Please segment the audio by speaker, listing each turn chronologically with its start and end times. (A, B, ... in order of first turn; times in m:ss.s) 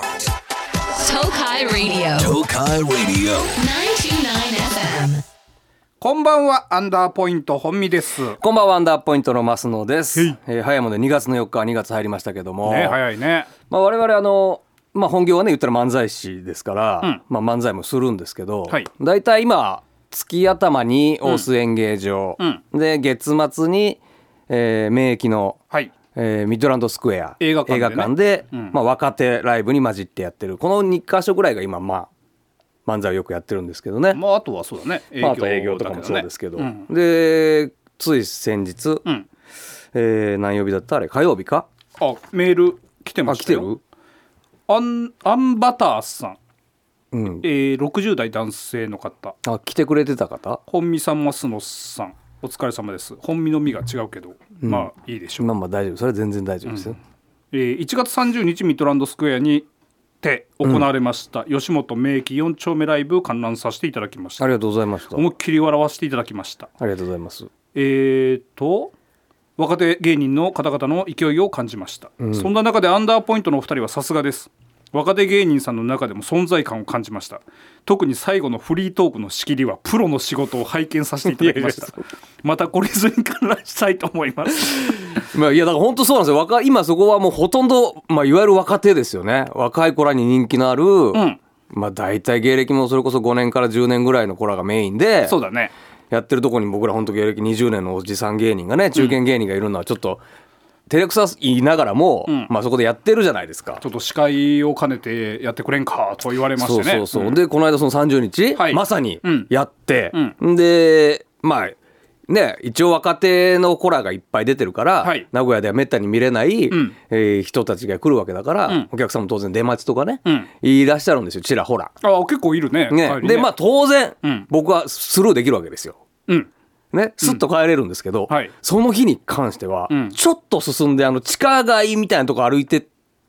0:00.9-0:02.4 A
0:02.2-0:03.5 B
0:03.6-0:05.2 A
0:06.0-0:08.4 C
0:08.4-0:13.0 B
0:12.6-0:13.5 C
0:13.7-0:25.6 B
0:26.1-0:32.1 B
0:27.4-0:28.8 C
0:32.8-0:34.2 B
0:34.1-0:36.9 C
0:35.2-0:39.0 B
0:39.9-0:41.7 B
0:42.0-0:43.7 C
0:43.2-0:43.8 B
0:44.7-0:46.4 C
0:47.1-0:47.5 B
0:47.4-0:49.3 C
0:49.4-0:50.6 B
0:50.7-0:55.5 C
0:54.6-0:57.0 B
0:56.7-0:57.0 C
0:57.5-0:59.7 C
1:00.2-1:04.5 C
1:04.4-1:05.2 B
1:05.1-1:06.7 C
1:06.8-1:07.5 B
1:07.7-1:08.9 C
1:09.6-1:25.2 C
1:12.2-1:12.5 B
1:21.2-1:22.0 B
1:24.7-1:35.4 B
1:31.1-1:31.4 C
1:35.2-1:35.7 C
1:36.1-1:40.2 B
1:40.9-1:43.8 B
1:43.8-1:47.4 C
1:46.6-1:51.8 B
1:48.5-1:49.5 C
1:52.3-2:01.9 B
1:55.0-1:55.3 C
1:56.7-1:57.0 C
2:00.2-2:00.5 C
2:02.0-2:03.5 C
2:02.9-2:06.0 B
2:04.2-2:04.5 C
2:06.9-2:12.9 B
2:08.3-2:08.5 C
2:09.9-2:10.2 C